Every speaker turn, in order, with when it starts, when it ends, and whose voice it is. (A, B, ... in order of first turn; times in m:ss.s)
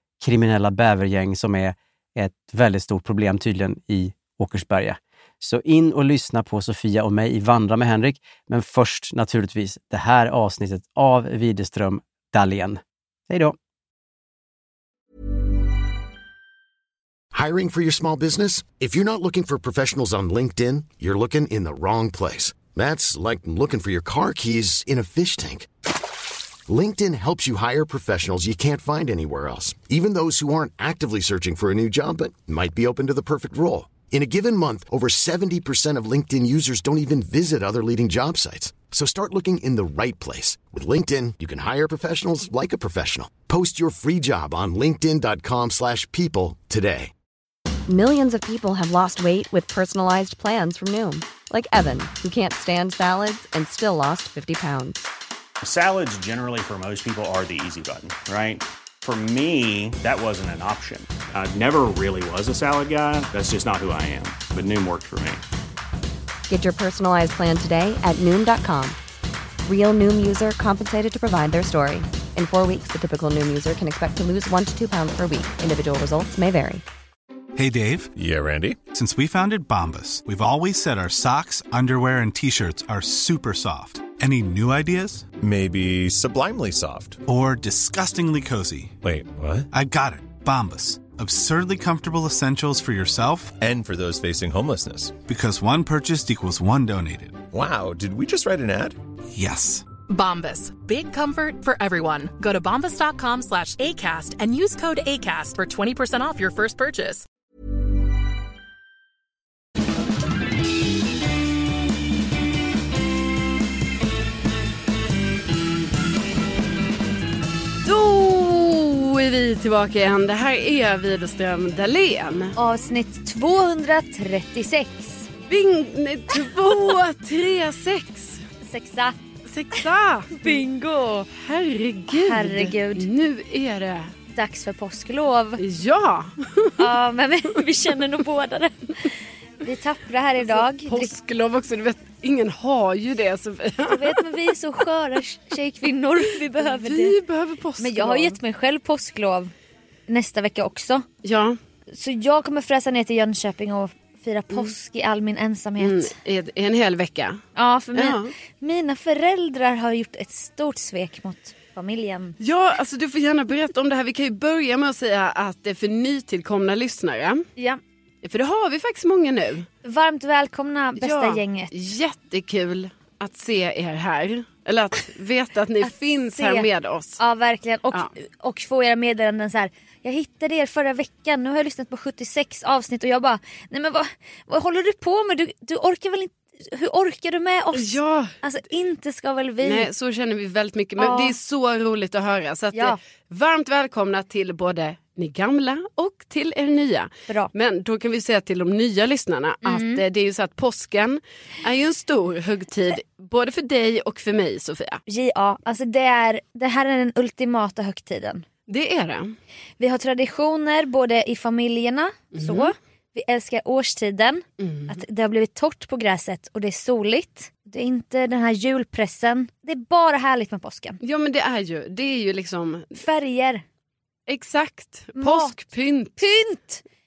0:00.2-0:13.6 A
0:17.3-0:25.7 B
0:26.7-0:47.1 B
0:47.9-0:55.0 C
0:55.6-1:05.4 D
1:06.5-1:09.0 C
1:09.6-1:16.8 C
1:17.6-1:18.1 E
1:18.2-1:18.8 F
1:18.8-1:25.3 E
1:25.4-1:27.2 F
1:27.3-1:28.9 E
1:29.0-1:29.7 F
1:29.7-1:33.6 E
1:33.6-1:35.2 F
1:35.2-1:37.5 E
1:37.5-1:39.0 F
1:39.3-1:39.8 E
1:40.1-1:47.3 G
1:57.8-2:02.5 H
2:02.6-2:05.3 I
2:05.5-2:08.4 H
2:08.6-2:09.2 I
2:09.5-2:10.6 H
2:10.4-2:11.3 I
2:11.4-2:14.1 H
2:12.1-2:13.1 I
2:14.3-2:15.6 I
2:15.6-2:16.8 H
2:16.8-2:21.1 I
2:20.4-2:24.2 H
2:23.9-2:27.2 I
2:26.8-2:28.4 H
2:27.8-2:29.5 I
2:30.1-2:31.0 I
2:31.2-2:31.6 H
2:31.9-2:36.1 I
2:35.8-2:37.4 H
2:37.6-2:42.4 I
2:37.9-2:38.3 H
2:42.4-2:47.4 H
2:48.2-2:49.7 H
2:49.8-2:51.7 I
2:51.0-2:57.2 H
2:55.8-2:56.7 I
2:57.2-3:09.9 I
3:07.7-3:08.3 H
3:09.6-3:25.0 H
3:11.0-3:11.3 I
3:12.7-3:13.0 I
3:19.6-3:20.0 I
3:25.1-3:28.4 I
3:28.7-3:29.4 H
3:29.8-3:41.0 I
3:32.4-3:32.7 H
3:34.6-3:35.0 H
3:41.0-3:43.0 H
3:43.0-3:43.6 I
3:44.3-3:46.2 H
3:45.2-3:45.6 I
3:46.2-3:46.8 I